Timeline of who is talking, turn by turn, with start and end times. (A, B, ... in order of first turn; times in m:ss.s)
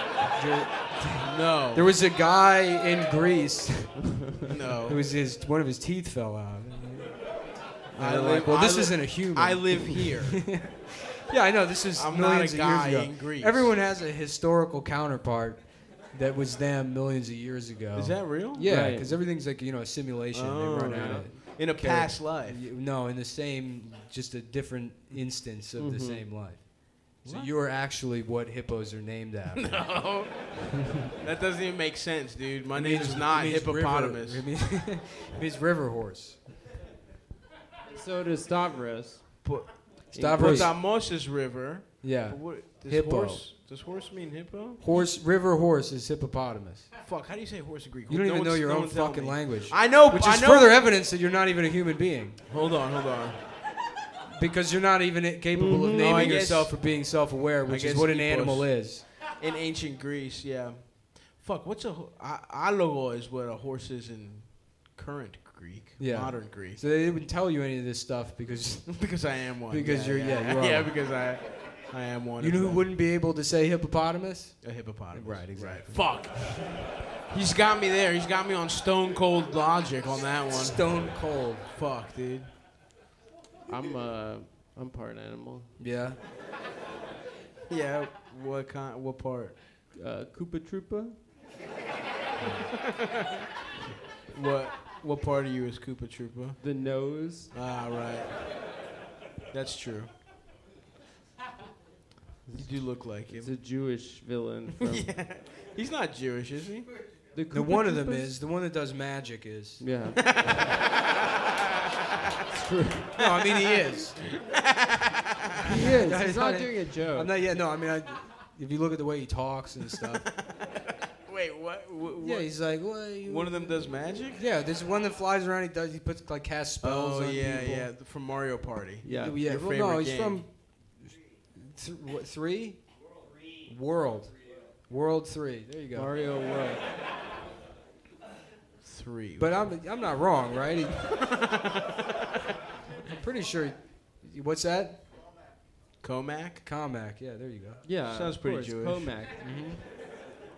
0:00.3-0:04.2 A
0:01.2-0:01.9 B
0:04.4-0:05.0 B
0:04.8-0:07.4 A
0:07.9-0:29.9 A
0:08.0-0:10.4 B
0:12.0-0:13.7 B
0:17.9-0:18.6 B
0:18.6-0:19.1 C
0:20.3-0:22.6 B
0:20.8-0:21.3 C
0:25.8-0:26.2 C
0:27.2-0:27.5 B
0:29.5-0:30.6 B
0:31.2-0:34.4 B
0:32.7-0:36.4 A
0:37.9-0:39.5 C
0:39.4-0:44.8 B
0:40.1-0:40.7 C
0:40.1-0:40.8 A
0:42.0-0:43.4 A
0:44.8-0:46.9 A
0:47.0-0:50.8 B
0:48.1-0:52.4 A
0:52.5-0:53.4 B
0:54.3-0:59.0 A
0:55.6-0:56.4 C
0:56.0-1:06.8 B
1:06.0-1:10.9 A
1:08.9-1:12.8 B
1:12.4-1:16.4 A
1:14.6-1:21.0 B
1:20.5-1:21.7 A
1:21.7-1:22.5 B
1:23.7-1:25.7 C
1:25.8-1:26.2 A
1:27.7-1:29.6 B
1:29.9-1:31.2 C
1:32.4-1:32.7 A
1:32.8-1:33.2 B
1:34.3-1:36.6 B
1:36.6-1:37.5 C
1:37.5-1:38.3 B
1:39.5-1:40.1 B
1:42.5-1:43.5 B
1:43.3-1:45.1 C
1:44.8-1:46.9 B
1:47.3-1:48.3 C
1:47.5-1:49.8 A
1:49.8-1:50.2 C
1:50.2-1:50.8 B
1:52.5-1:53.1 C
1:53.2-1:54.2 A
1:53.4-1:55.6 B
1:55.7-1:57.3 C
1:55.7-2:00.2 A
2:00.0-2:04.4 B
2:02.2-2:07.9 A
2:06.8-2:10.4 B
2:09.0-2:09.4 C
2:09.2-2:12.9 A
2:13.6-2:14.3 A
2:14.9-2:16.1 A
2:15.9-2:16.8 C
2:18.8-2:19.5 B
2:19.4-2:21.2 A
2:21.1-2:22.0 B
2:23.0-2:25.0 A
2:26.0-2:26.6 B
2:26.6-2:27.8 A
2:27.8-2:29.4 C
2:28.1-2:29.1 B
2:29.4-2:29.8 A